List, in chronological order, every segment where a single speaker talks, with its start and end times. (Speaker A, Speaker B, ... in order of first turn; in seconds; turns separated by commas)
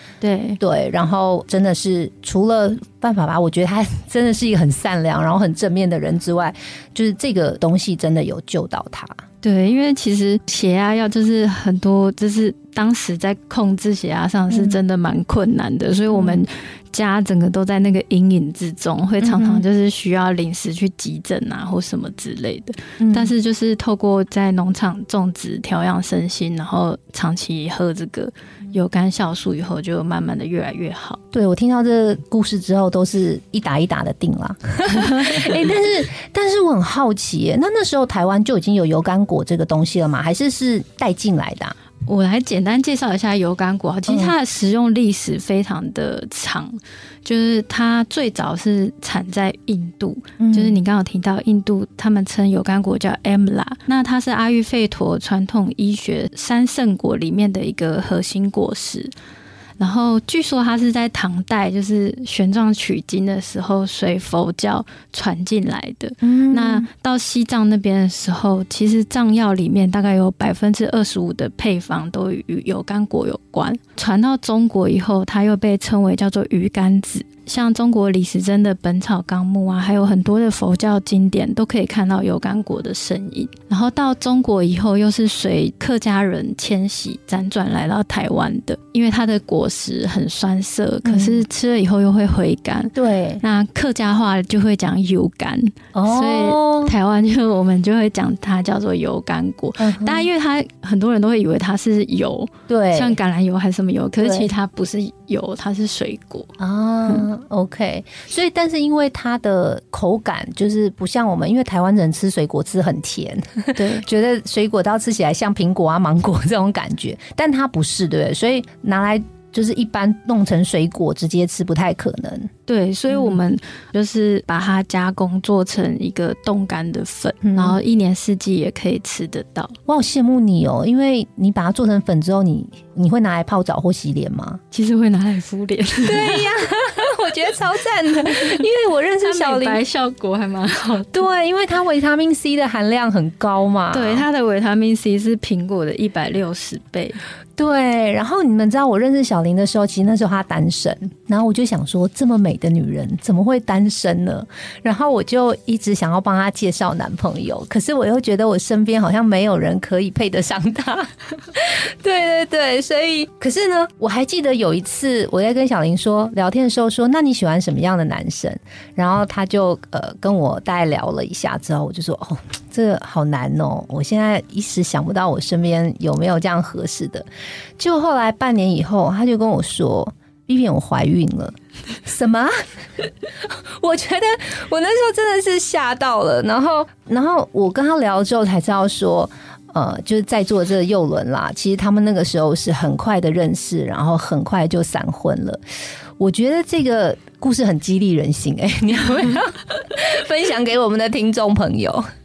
Speaker A: 0.2-0.6, Speaker B: 0.6-9.2, Speaker A: 9.4-31.2, Speaker B: 14.5-14.8, Speaker B: 16.1-16.4, Speaker B: 19.2-19.6, Speaker B: 23.0-23.3, Speaker B: 31.3-41.7, Speaker A: 34.9-35.7, Speaker A: 42.0-59.1, Speaker B: 50.4-50.8, Speaker A: 59.8-106.5, Speaker B: 66.2-66.9, Speaker B: 91.0-91.4, Speaker B: 92.9-93.4, Speaker B: 95.9-96.9, Speaker B: 99.8-100.3, Speaker B: 102.7-103.2, Speaker B: 104.2-104.5, Speaker B: 106.6-122.5, Speaker A: 113.8-114.0, Speaker A: 122.7-129.8, Speaker B: 123.1-123.4, Speaker B: 127.4-127.8, Speaker B: 129.8-134.6, Speaker A: 134.7-136.5, Speaker B: 136.1-139.8, Speaker A: 139.2-141.2, Speaker B: 141.1-144.2, Speaker A: 143.9-147.2, Speaker B: 147.6-177.2, Speaker B: 177.8-182.6, Speaker B: 183.8-195.6, Speaker B: 196.2-202.1